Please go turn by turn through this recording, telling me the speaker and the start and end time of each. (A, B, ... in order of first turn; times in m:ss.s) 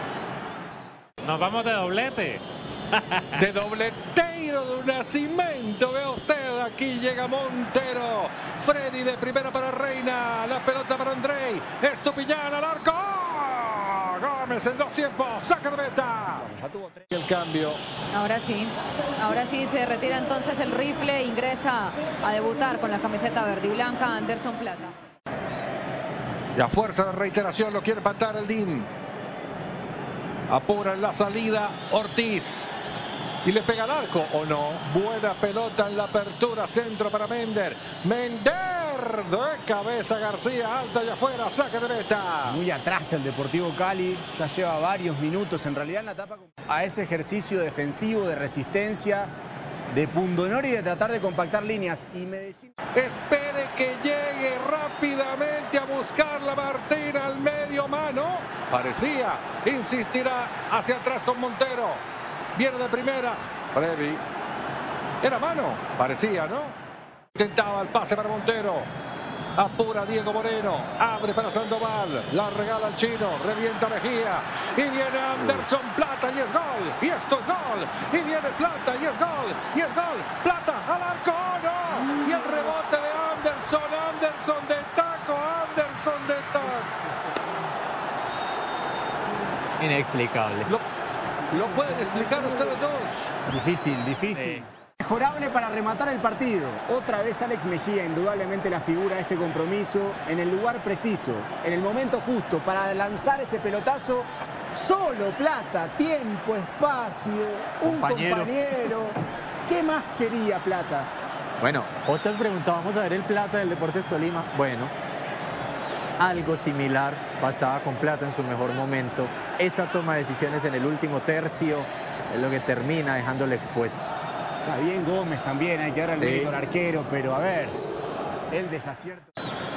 0:01.2-0:03.4 A
0:03.4-0:16.5 B
0:16.4-0:17.1 C
0:17.1-0:17.8 B
0:18.1-0:24.9 D
0:26.5-0:28.9 B
0:30.5-0:32.7 B
0:33.4-0:42.6 B
0:42.4-0:49.3 C
0:49.9-0:52.7 C
0:52.9-1:02.0 B
1:02.5-1:04.2 B
1:05.2-1:06.8 B
1:07.3-1:08.9 B
1:09.6-1:26.9 B
1:29.8-1:30.7 E
1:31.5-1:33.3 B
1:33.5-1:51.1 C
1:34.3-1:34.6 E
1:47.8-1:48.5 E
1:51.6-1:54.9 E
1:56.2-2:04.1 E
2:04.6-2:07.8 C
2:06.1-2:06.6 E
2:08.5-2:09.3 C